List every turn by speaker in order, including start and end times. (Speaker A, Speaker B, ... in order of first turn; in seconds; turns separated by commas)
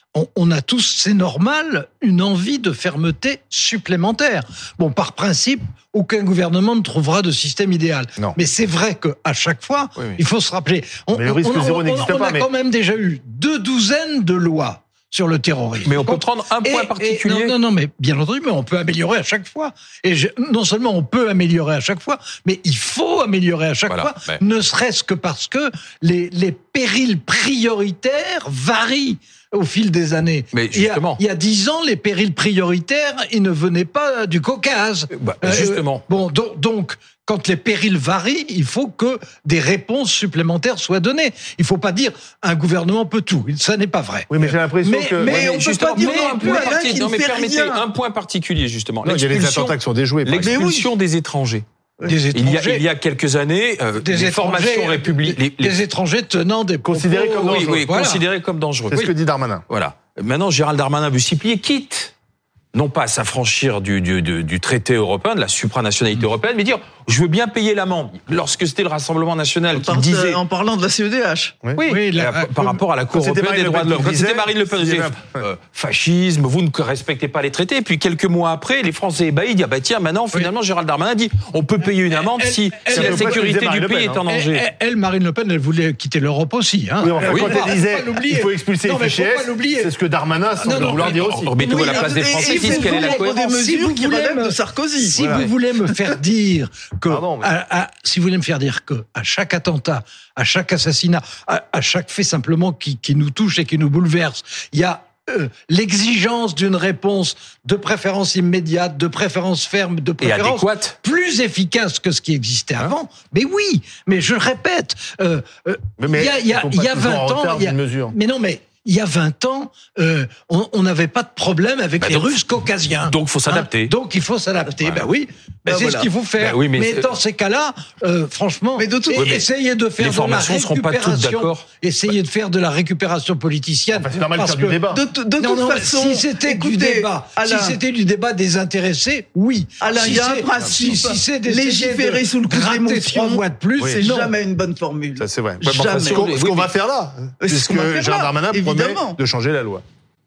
Speaker A: 0.1-46.9, Speaker B: 11.1-12.5, Speaker C: 15.8-17.5, Speaker C: 23.9-24.4, Speaker C: 30.5-31.2, Speaker C: 35.1-36.0, Speaker B: 44.3-45.5, Speaker D: 45.2-47.9, Speaker C: 45.3-51.6, Speaker B: 49.0-50.6, Speaker D: 50.4-50.9, Speaker A: 52.0-52.8, Speaker C: 52.3-55.8, Speaker A: 54.0-58.2, Speaker B: 56.8-57.9, Speaker C: 57.2-59.1, Speaker B: 58.9-59.6, Speaker C: 59.7-62.1, Speaker C: 62.7-70.4, Speaker D: 69.7-71.6, Speaker C: 71.8-84.6, Speaker A: 71.8-72.8, Speaker B: 73.1-75.4, Speaker A: 82.2-83.5, Speaker B: 82.9-84.2, Speaker A: 84.3-89.9, Speaker B: 87.0-91.5, Speaker C: 87.2-87.6, Speaker A: 90.5-94.6, Speaker C: 90.6-93.4, Speaker D: 91.6-95.3, Speaker A: 95.1-134.8, Speaker B: 95.2-95.5, Speaker C: 95.2-95.5, Speaker B: 97.1-97.5, Speaker C: 110.2-110.9, Speaker B: 116.0-118.1, Speaker C: 122.0-122.3, Speaker C: 123.1-123.9, Speaker C: 124.6-125.0, Speaker D: 125.7-126.1, Speaker C: 126.4-127.1, Speaker D: 128.8-129.3, Speaker C: 129.1-129.5, Speaker C: 130.0-131.6, Speaker B: 133.9-135.0, Speaker D: 134.9-137.8, Speaker A: 135.4-144.3, Speaker D: 139.8-146.4, Speaker B: 140.1-141.0, Speaker B: 145.2-149.8, Speaker C: 145.6-146.7, Speaker D: 147.4-149.2